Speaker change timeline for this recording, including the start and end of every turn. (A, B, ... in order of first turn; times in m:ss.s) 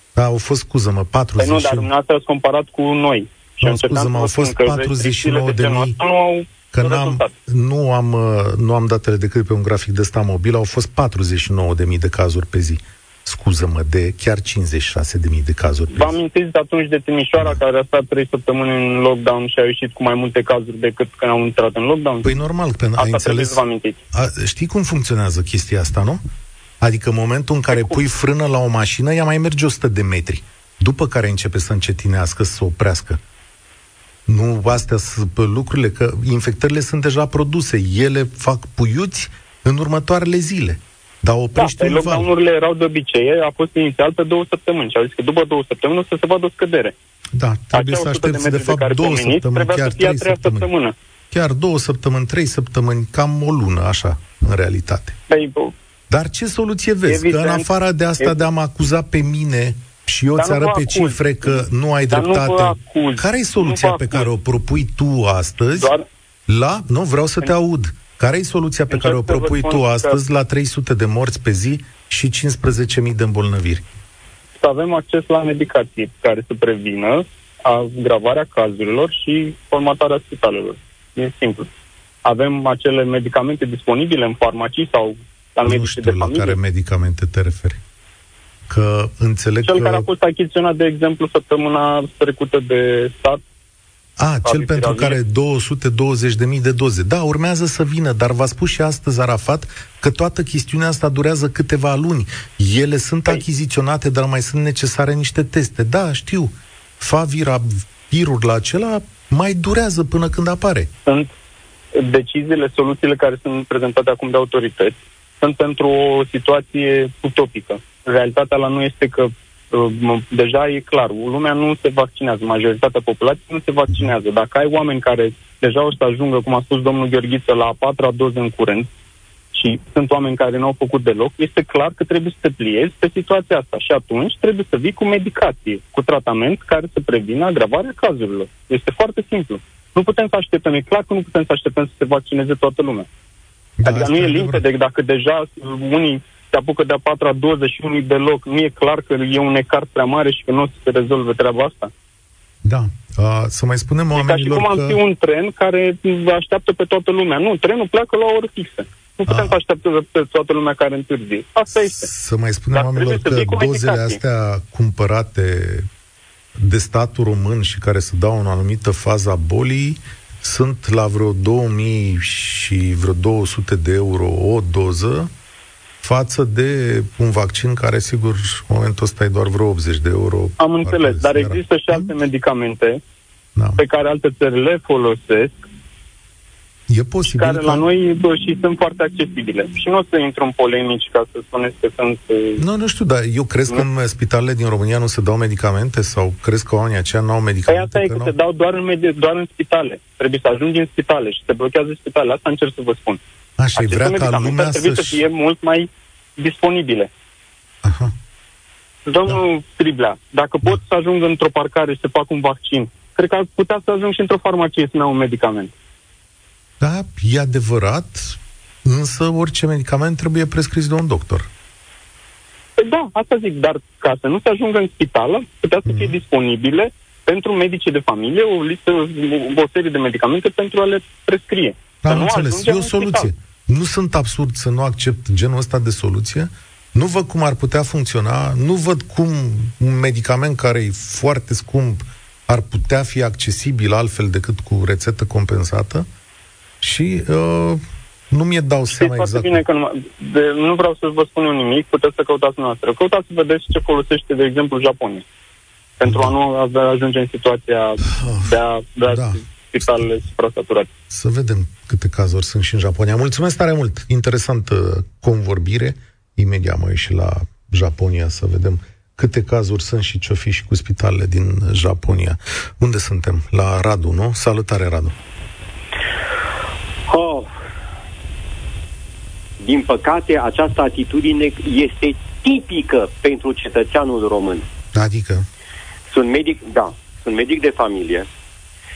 0:00.2-0:01.9 A
0:01.4-0:07.3 B
0:03.6-0:06.0 A
0:06.7-0:16.2 A
0:15.9-0:22.3 B
0:22.2-0:26.2 A
0:23.0-0:24.0 B
0:26.8-0:33.2 A
0:27.7-0:28.0 B
0:34.3-0:42.3 A
0:41.6-0:47.0 B
0:47.4-0:50.7 A
0:47.7-0:51.0 B
0:51.3-0:55.2 A
0:55.3-0:55.7 B
0:56.1-1:05.9 A
0:57.1-0:58.4 B
1:00.4-1:04.3 B
1:05.8-1:06.0 B
1:06.5-1:13.9 A
1:08.9-1:10.2 B
1:14.6-1:21.7 B
1:22.2-1:26.6 B
1:25.6-1:27.8 A
1:28.7-1:30.1 A
1:29.6-1:33.4 B
1:34.2-1:50.9 A
1:34.4-1:35.2 B
1:52.0-2:08.9 B
2:09.5-2:23.1 B
2:23.8-2:24.6 A
2:23.8-2:31.9 B
2:32.6-2:35.0 A
2:34.1-2:42.1 B
2:39.3-2:39.6 A
2:41.8-2:45.9 A
2:42.7-2:44.2 B
2:46.6-2:55.3 A
2:56.0-3:02.2 A
3:00.6-3:03.0 B
3:03.6-3:03.8 A
3:03.8-3:05.7 B
3:06.9-3:07.8 A
3:07.2-3:12.6 B
3:12.6-3:18.4 A
3:17.7-3:23.2 B
3:23.6-3:25.2 A
3:23.8-3:27.1 B
3:27.8-3:28.1 A
3:29.1-3:35.7 B
3:36.8-3:41.5 A
3:42.8-3:53.3 B
3:45.8-3:46.2 A
3:52.0-4:06.1 A
4:06.8-4:09.6 A
4:09.0-4:15.2 B
4:16.0-4:20.9 B
4:16.0-4:16.4 A
4:18.1-4:20.1 A
4:21.1-4:35.2 A
4:37.1-4:37.5 C
4:39.6-4:44.7 C
4:44.9-4:45.5 A
4:46.1-4:48.3 C